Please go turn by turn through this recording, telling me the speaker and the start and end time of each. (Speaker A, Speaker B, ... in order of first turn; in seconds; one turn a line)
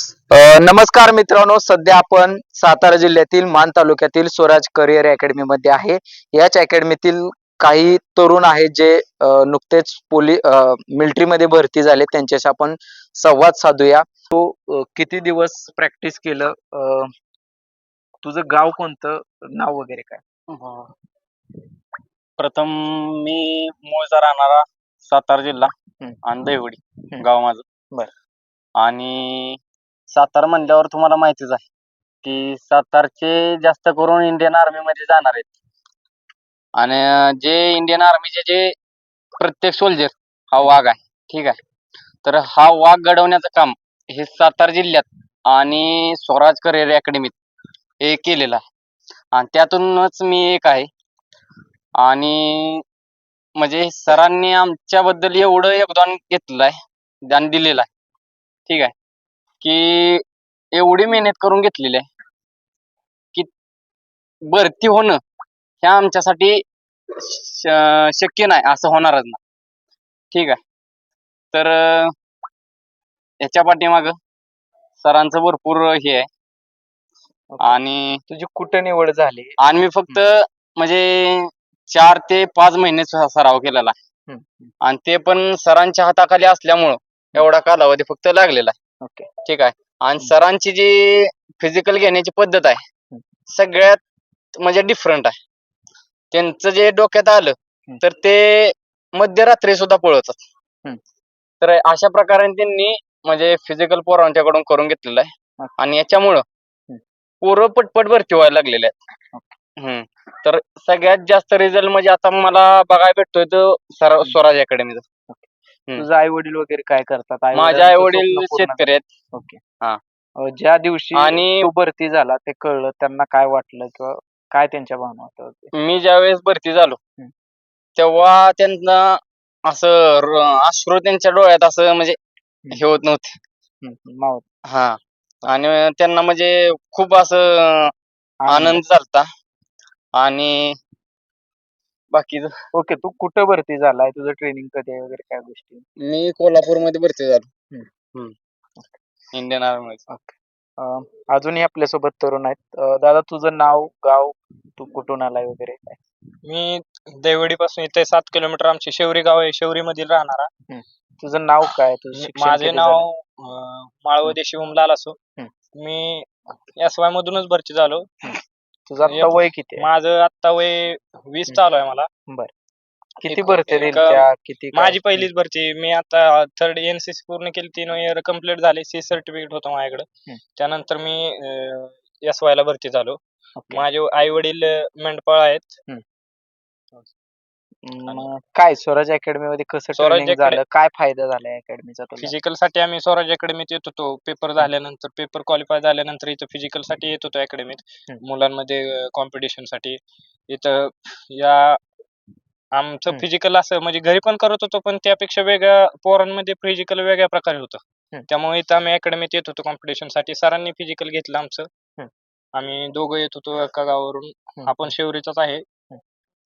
Speaker A: 0.3-17.1
Speaker A: 18.2-20.2
Speaker B: 20.5-20.9
Speaker B: 22.4-27.6
Speaker B: 28.8-31.6
Speaker B: 32.2-35.5
Speaker B: 36.8-38.7
Speaker B: 39.4-41.6
Speaker B: 42.2-47.4
Speaker B: 48.0-48.6
Speaker B: 49.3-50.9
Speaker B: 52.0-52.8
Speaker B: 53.6-57.9
Speaker B: 58.7-58.9
Speaker B: 59.6-62.0
Speaker B: 64.5-65.2
Speaker B: 65.8-69.4
Speaker B: 70.3-70.6
Speaker B: 71.5-72.1
Speaker B: 73.4-74.2
Speaker B: 75.0-76.3
Speaker A: 77.5-77.8
Speaker B: 77.6-78.2
Speaker A: 78.3-79.5
Speaker B: 79.6-83.9
Speaker A: 84.3-84.7
Speaker B: 84.8-88.7
Speaker A: 89.0-89.3
Speaker B: 89.4-92.8
Speaker B: 93.5-94.0
Speaker B: 94.5-95.3
Speaker B: 96.3-100.4
Speaker B: 101.6-106.4
Speaker B: 107.4-108.9
Speaker B: 109.8-115.0
Speaker A: 115.3-119.6
Speaker B: 117.5-119.0
Speaker A: 120.4-125.7
Speaker B: 121.1-121.7
Speaker B: 125.7-127.0
Speaker B: 128.0-132.2
Speaker B: 132.7-133.4
Speaker A: 133.8-134.4
Speaker B: 134.6-137.9
Speaker A: 138.4-138.8
Speaker B: 138.5-139.2
Speaker B: 140.2-140.8
Speaker B: 142.1-142.5
Speaker A: 142.7-145.8
Speaker B: 146.0-147.5
Speaker B: 149.3-150.0
Speaker A: 150.1-156.0
Speaker C: 156.4-160.5
Speaker A: 160.7-163.1
Speaker C: 162.1-165.2
Speaker C: 165.8-166.3
Speaker C: 166.8-168.1
Speaker A: 168.2-169.9
Speaker C: 169.0-172.1
Speaker A: 173.2-175.3
Speaker C: 173.2-180.1
Speaker C: 180.6-183.2
Speaker A: 183.6-183.8
Speaker C: 183.7-185.7
Speaker A: 187.8-192.3
Speaker C: 189.9-190.6
Speaker C: 192.2-201.8
Speaker C: 202.7-211.7
Speaker C: 212.5-215.6
Speaker A: 214.6-214.9